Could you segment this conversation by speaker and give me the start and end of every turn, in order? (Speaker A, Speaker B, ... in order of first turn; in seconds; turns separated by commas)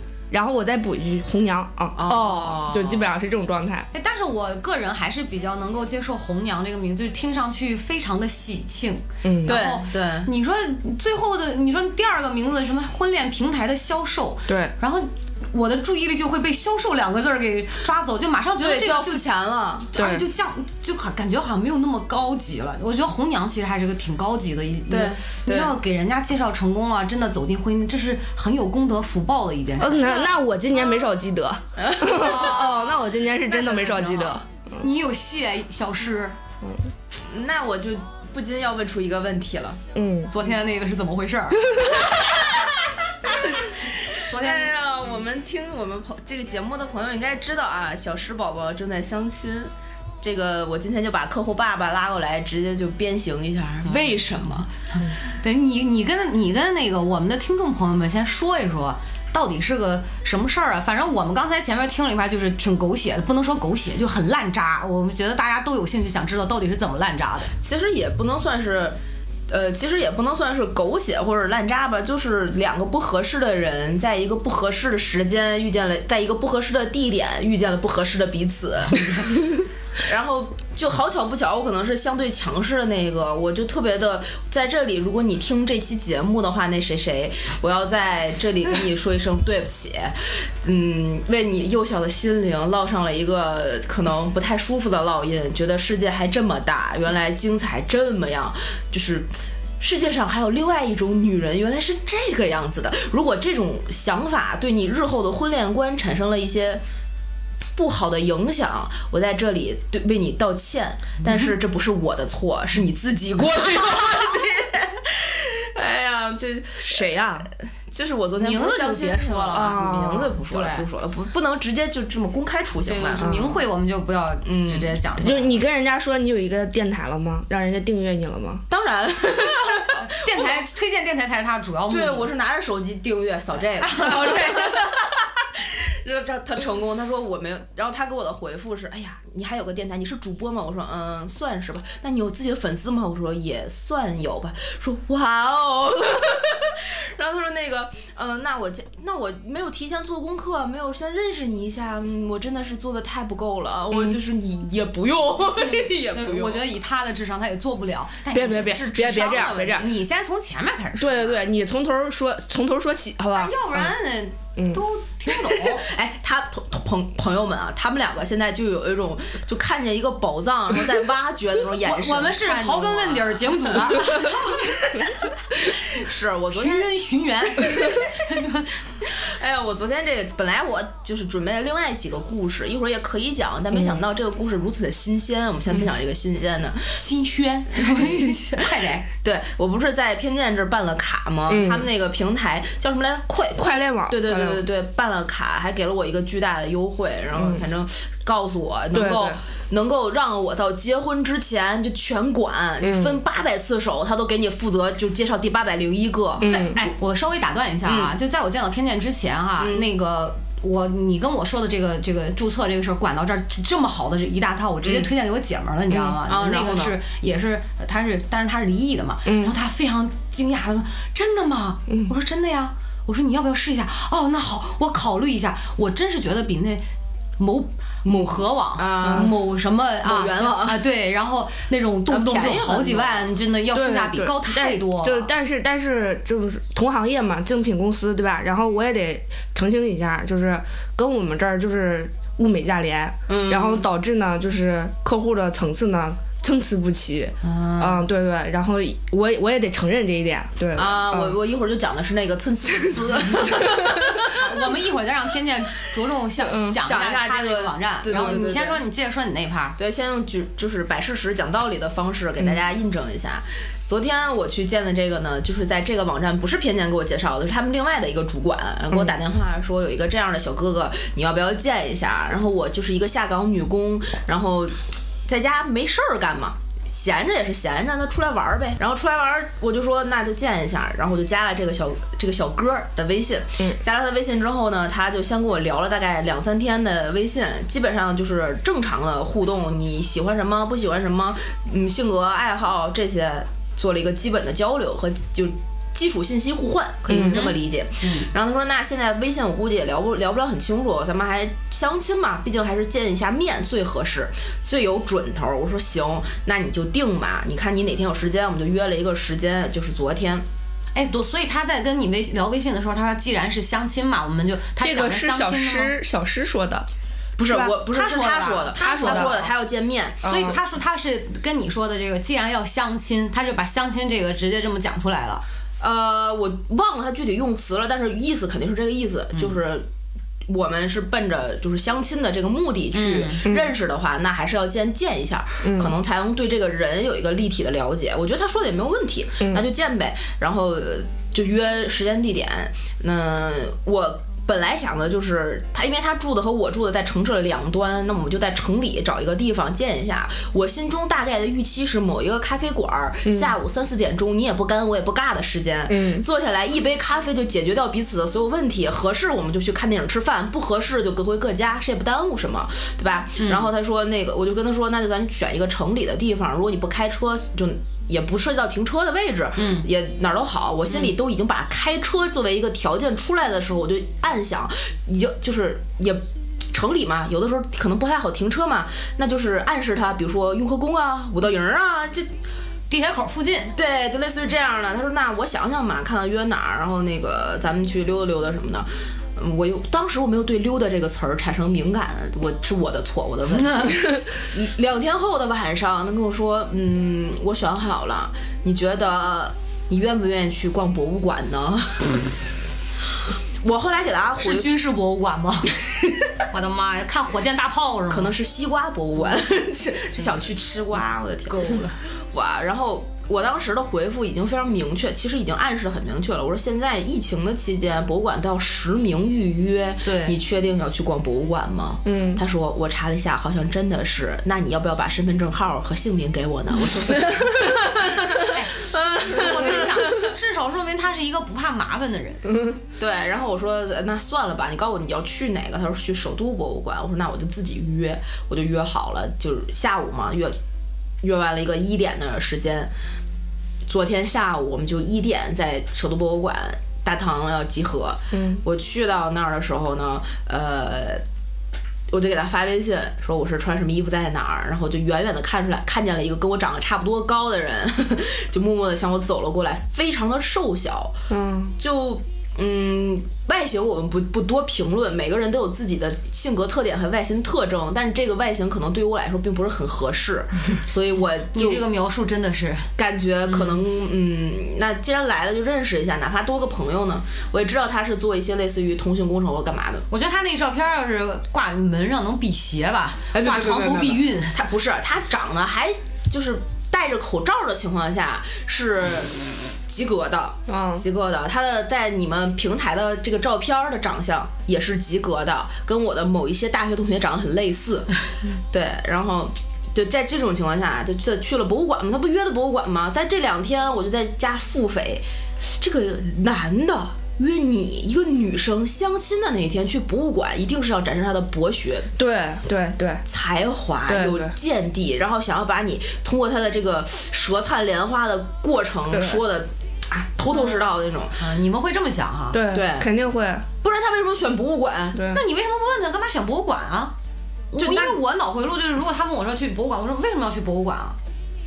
Speaker A: 0.3-3.9, Speaker B: 2.0-3.1, Speaker C: 3.9-19.2, Speaker A: 9.2-9.6, Speaker B: 9.4-10.3, Speaker A: 14.5-14.7, Speaker B: 18.6-19.9, Speaker C: 19.9-30.3, Speaker A: 19.9-20.3, Speaker B: 24.9-25.7, Speaker A: 29.8-34.9, Speaker B: 31.8-32.5, Speaker C: 32.0-32.9, Speaker C: 33.7-36.4, Speaker B: 37.2-39.8, Speaker A: 39.9-40.3, Speaker C: 40.3-42.2, Speaker B: 42.1-54.7, Speaker C: 44.3-44.7, Speaker C: 55.0-67.5, Speaker B: 67.6-69.0, Speaker B: 69.5-79.3, Speaker B: 80.0-106.8, Speaker B: 107.7-123.3, Speaker C: 111.2-111.5, Speaker A: 116.8-117.5, Speaker C: 118.4-119.8, Speaker A: 119.5-120.4, Speaker C: 120.5-120.8, Speaker C: 122.8-125.6, Speaker A: 123.2-123.5, Speaker B: 124.4-124.9, Speaker A: 125.2-128.6, Speaker B: 128.7-130.6, Speaker C: 130.2-132.3, Speaker B: 131.9-156.7, Speaker C: 134.0-134.5, Speaker A: 153.9-154.2, Speaker C: 155.6-161.4, Speaker A: 158.3-159.9, Speaker B: 158.5-159.8, Speaker A: 161.0-163.9, Speaker C: 163.3-165.9, Speaker A: 164.6-164.8, Speaker B: 165.6-176.9, Speaker C: 171.7-174.8, Speaker C: 176.5-178.7, Speaker B: 177.6-178.1, Speaker B: 179.1-187.0, Speaker A: 183.7-184.0, Speaker C: 186.9-189.0, Speaker B: 187.7-206.9, Speaker A: 191.5-191.9, Speaker A: 193.6-194.7, Speaker A: 197.3-197.6, Speaker A: 198.9-199.4, Speaker A: 202.8-203.2, Speaker A: 206.4-206.8, Speaker C: 206.4-226.8, Speaker B: 207.8-208.1, Speaker B: 209.6-209.9, Speaker B: 214.8-215.1, Speaker B: 216.2-217.0, Speaker A: 219.2-219.6, Speaker C: 227.4-235.3, Speaker B: 228.8-229.3, Speaker B: 230.0-230.8, Speaker B: 232.1-233.3, Speaker A: 233.7-251.3, Speaker B: 243.3-243.9, Speaker C: 247.4-248.0, Speaker B: 250.8-254.4, Speaker C: 254.3-259.8, Speaker A: 256.4-256.8, Speaker B: 256.8-258.8, Speaker B: 259.8-310.4, Speaker A: 297.1-297.5, Speaker C: 297.1-298.3, Speaker C: 310.9-316.0, Speaker A: 314.8-316.9, Speaker B: 317.4-320.6, Speaker C: 317.8-319.5, Speaker A: 318.8-319.3, Speaker A: 320.2-320.6, Speaker C: 320.2-325.4, Speaker B: 325.8-329.9, Speaker B: 330.5-382.3, Speaker C: 332.9-333.4, Speaker A: 333.4-333.7, Speaker A: 335.6-335.9, Speaker A: 353.2-353.5, Speaker A: 355.9-356.2, Speaker C: 363.4-363.7, Speaker C: 369.6-369.9, Speaker C: 370.9-371.1, Speaker C: 382.9-383.7, Speaker B: 383.7-402.1, Speaker C: 393.5-394.0, Speaker B: 403.6-404.7, Speaker C: 404.4-405.8, Speaker B: 405.9-406.3, Speaker C: 406.5-408.3, Speaker B: 408.1-430.1, Speaker C: 411.6-411.9, Speaker C: 420.0-420.4, Speaker A: 422.0-422.4, Speaker C: 428.5-432.5, Speaker B: 433.0-440.6, Speaker B: 441.2-442.9, Speaker B: 443.9-451.2, Speaker A: 448.3-448.6, Speaker B: 452.1-461.1, Speaker A: 461.3-461.7, Speaker B: 461.8-471.9, Speaker C: 471.5-472.9, Speaker B: 473.0-480.1, Speaker C: 473.5-473.8, Speaker C: 480.1-484.6, Speaker B: 483.3-498.1, Speaker A: 490.7-491.0, Speaker B: 498.7-512.1, Speaker A: 512.1-513.2, Speaker B: 513.2-521.4, Speaker A: 514.1-514.5, Speaker A: 519.1-519.4, Speaker C: 520.5-520.8, Speaker C: 521.4-522.6, Speaker A: 522.5-523.6, Speaker B: 522.7-523.1, Speaker B: 523.8-525.2, Speaker A: 525.1-525.4, Speaker C: 525.3-527.1, Speaker C: 527.7-531.2, Speaker B: 527.7-528.2